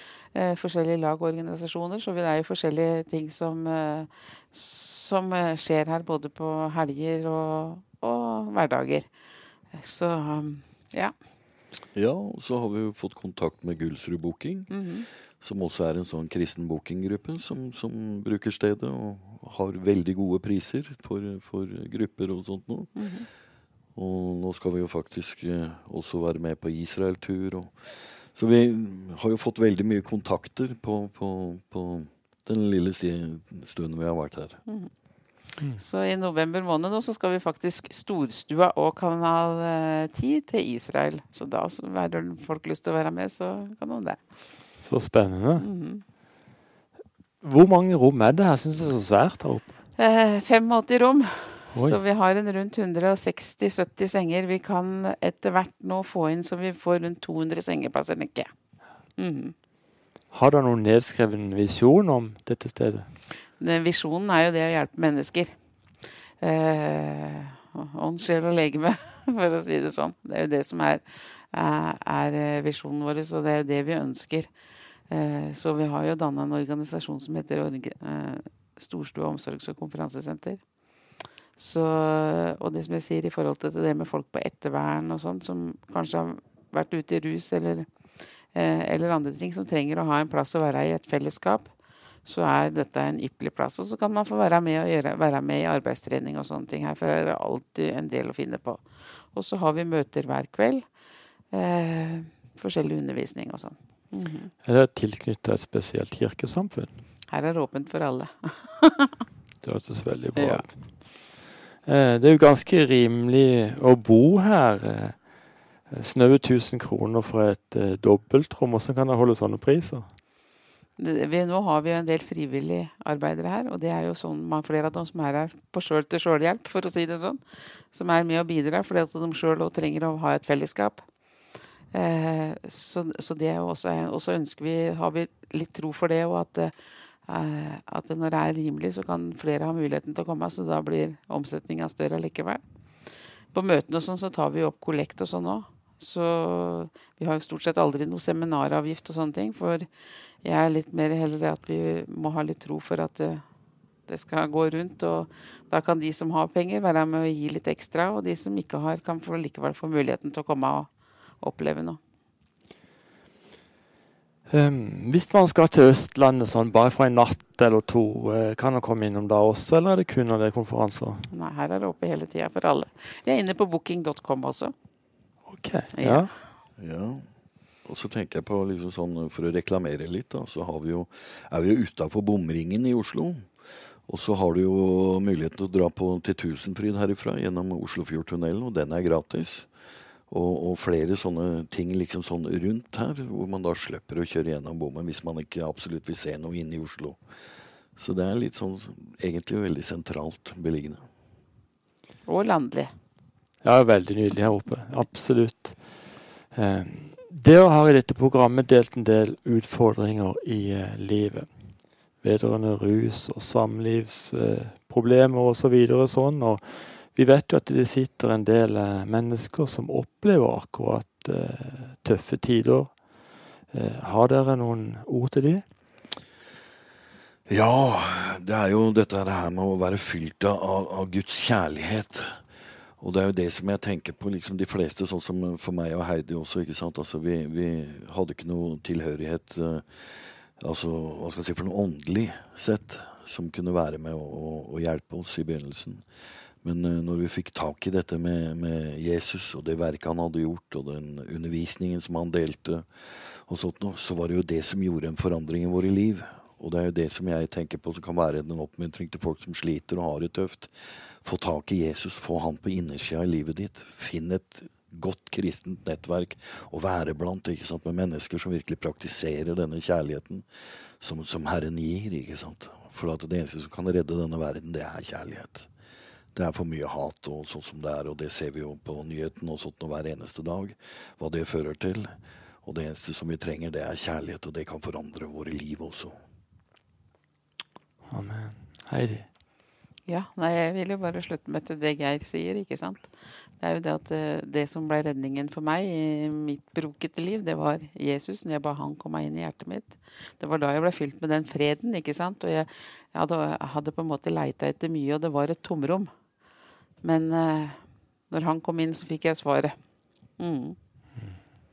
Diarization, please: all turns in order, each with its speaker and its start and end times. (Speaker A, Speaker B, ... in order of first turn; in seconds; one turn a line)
Speaker A: 0.3-9.1
Speaker A: 9.7-11.1
Speaker B: 11.9-14.7
Speaker A: 14.7-15.1
Speaker B: 15.4-22.9
Speaker A: 22.9-23.3
Speaker B: 23.9-34.6
Speaker A: 35.8-44.2
Speaker C: 44.8-45.7
Speaker A: 45.6-46.0
Speaker C: 47.4-49.7
Speaker A: 50.0-58.5
Speaker A: 59.2-59.5
Speaker C: 60.3-63.1
Speaker A: 63.6-65.5
Speaker A: 66.4-74.5
Speaker A: 75.1-80.6
Speaker A: 81.5-87.9
Speaker A: 88.5-91.7
Speaker A: 92.2-100.8
Speaker A: 101.5-104.5
Speaker C: 104.6-107.0
Speaker A: 107.3-109.2
Speaker C: 109.6-111.1
Speaker A: 110.3-110.7
Speaker C: 111.8-115.3
Speaker C: 115.9-120.1
Speaker A: 121.0-127.4
Speaker A: 127.9-131.1
Speaker A: 131.9-136.7
Speaker A: 137.3-142.6
Speaker A: 143.5-149.9
Speaker A: 150.4-153.4
Speaker A: 154.1-160.9
Speaker A: 161.4-162.0
Speaker C: 164.5-171.3
Speaker A: 171.3-174.7
Speaker C: 175.4-176.3
Speaker A: 175.9-176.3
Speaker B: 176.8-177.2
Speaker B: 177.8-183.5
Speaker B: 184.1-189.7
Speaker B: 190.3-197.2
Speaker B: 197.9-201.0
Speaker A: 202.2-202.9
Speaker C: 203.6-223.0
Speaker C: 223.7-225.6
Speaker B: 227.5-232.3
Speaker B: 233.0-246.0
Speaker B: 246.6-270.4
Speaker B: 271.0-275.7
Speaker B: 276.3-282.1
Speaker B: 282.6-286.1
Speaker C: 288.1-289.3
Speaker A: 290.1-306.1
Speaker A: 307.0-309.8
Speaker A: 310.4-310.8